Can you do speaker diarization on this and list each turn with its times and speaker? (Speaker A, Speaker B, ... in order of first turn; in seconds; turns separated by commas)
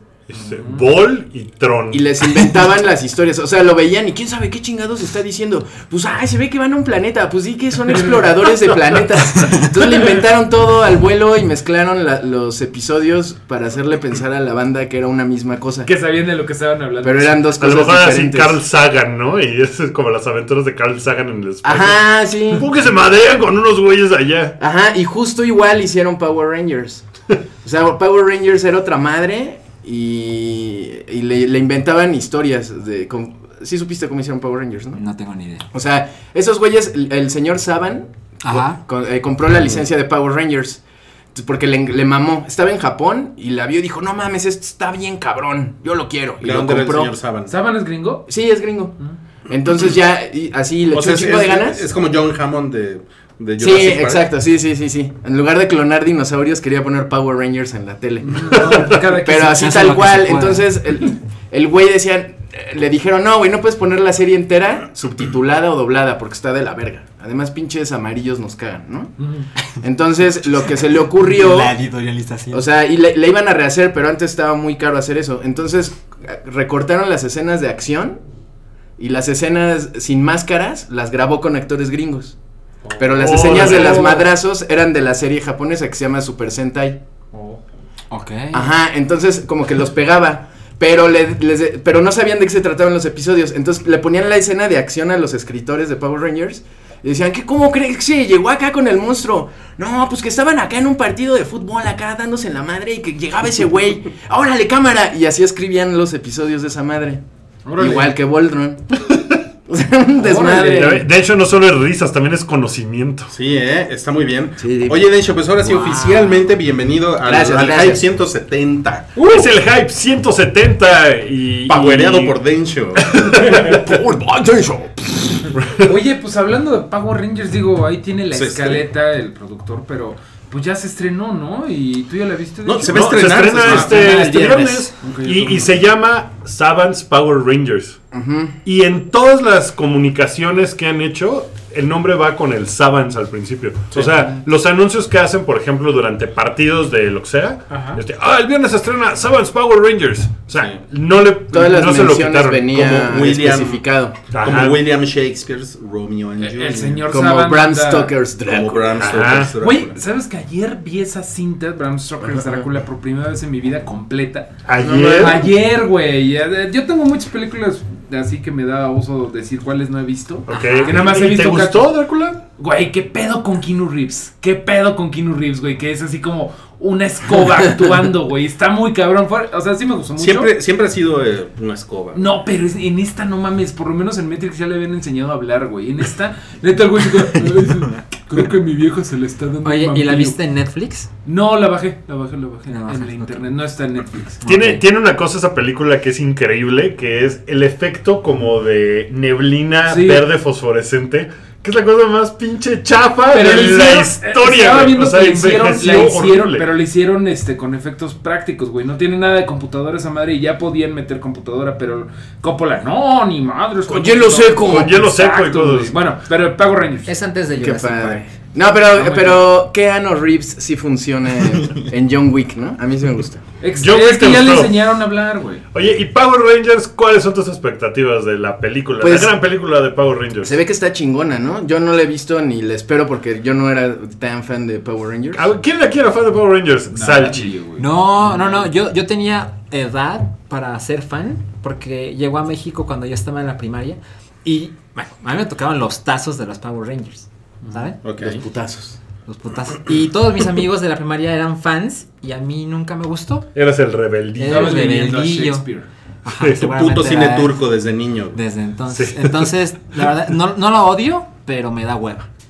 Speaker A: 0.3-2.1, Speaker B: 0.3-0.9, Speaker C: 1.9-15.9, Speaker B: 7.9-8.6, Speaker B: 15.8-17.5, Speaker C: 17.0-18.6, Speaker A: 17.6-24.6, Speaker C: 21.6-22.7, Speaker C: 24.6-27.1, Speaker C: 27.6-35.0, Speaker D: 34.9-35.7, Speaker C: 35.7-40.8, Speaker D: 38.4-38.8, Speaker C: 41.3-47.1, Speaker E: 46.4-47.5, Speaker B: 47.5-48.3, Speaker C: 48.3-49.0, Speaker C: 49.5-51.9, Speaker E: 50.9-54.3, Speaker C: 53.6-69.1, Speaker B: 58.2-59.8, Speaker D: 59.4-60.7, Speaker B: 69.2-69.5, Speaker C: 69.8-71.8, Speaker D: 71.2-72.7, Speaker C: 72.5-78.2, Speaker C: 79.0-82.3, Speaker B: 82.8-84.1, Speaker C: 83.0-87.0, Speaker A: 83.2-84.2, Speaker B: 87.3-87.6, Speaker D: 88.1-88.7, Speaker C: 88.5-107.2, Speaker B: 107.7-108.2, Speaker C: 107.8-109.0, Speaker C: 109.7-111.1, Speaker B: 110.2-111.0, Speaker A: 110.8-113.3, Speaker E: 113.3-119.2, Speaker C: 114.6-115.1, Speaker C: 115.6-116.0, Speaker C: 117.2-118.1, Speaker A: 119.2-122.4, Speaker E: 121.7-123.2, Speaker A: 123.1-123.8, Speaker C: 123.1-125.5, Speaker A: 125.6-125.9, Speaker B: 125.8-134.4, Speaker E: 128.3-128.8, Speaker E: 132.7-134.5, Speaker A: 132.8-138.0, Speaker B: 135.0-135.8, Speaker C: 138.1-138.6, Speaker A: 138.7-152.8, Speaker B: 147.7-148.0, Speaker E: 150.6-150.8, Speaker C: 151.5-154.2, Speaker E: 152.7-153.8, Speaker A: 154.3-154.8, Speaker E: 154.4-157.1, Speaker B: 156.4-158.2, Speaker C: 157.1-159.2, Speaker E: 158.4-160.0, Speaker A: 159.0-159.6, Speaker B: 159.6-172.0, Speaker C: 162.2-162.7, Speaker A: 164.7-165.5, Speaker C: 164.8-165.5, Speaker A: 170.5-172.4, Speaker D: 170.5-171.2, Speaker B: 172.6-180.5, Speaker E: 180.2-182.2, Speaker B: 182.1-190.4, Speaker D: 189.6-191.1, Speaker B: 191.2-194.4, Speaker D: 192.7-193.4, Speaker D: 194.4-194.8, Speaker A: 194.4-206.7, Speaker B: 199.9-200.2, Speaker B: 203.3-217.1, Speaker C: 213.9-215.1, Speaker A: 214.6-216.0, Speaker D: 217.1-218.3, Speaker C: 217.6-223.4, Speaker D: 219.0-219.4, Speaker B: 223.6-225.7, Speaker A: 223.8-224.8, Speaker A: 225.7-230.6, Speaker C: 229.0-229.4, Speaker C: 230.4-235.5, Speaker A: 235.3-237.6, Speaker B: 236.9-238.7, Speaker D: 237.8-248.0, Speaker B: 247.6-247.9, Speaker E: 248.0-248.4, Speaker C: 248.2-249.0, Speaker D: 249.3-253.5, Speaker A: 253.5-254.9, Speaker D: 254.4-255.7, Speaker B: 254.5-255.9, Speaker D: 256.2-257.6, Speaker A: 256.4-256.6, Speaker E: 256.6-258.4, Speaker D: 258.3-262.3, Speaker A: 258.9-259.5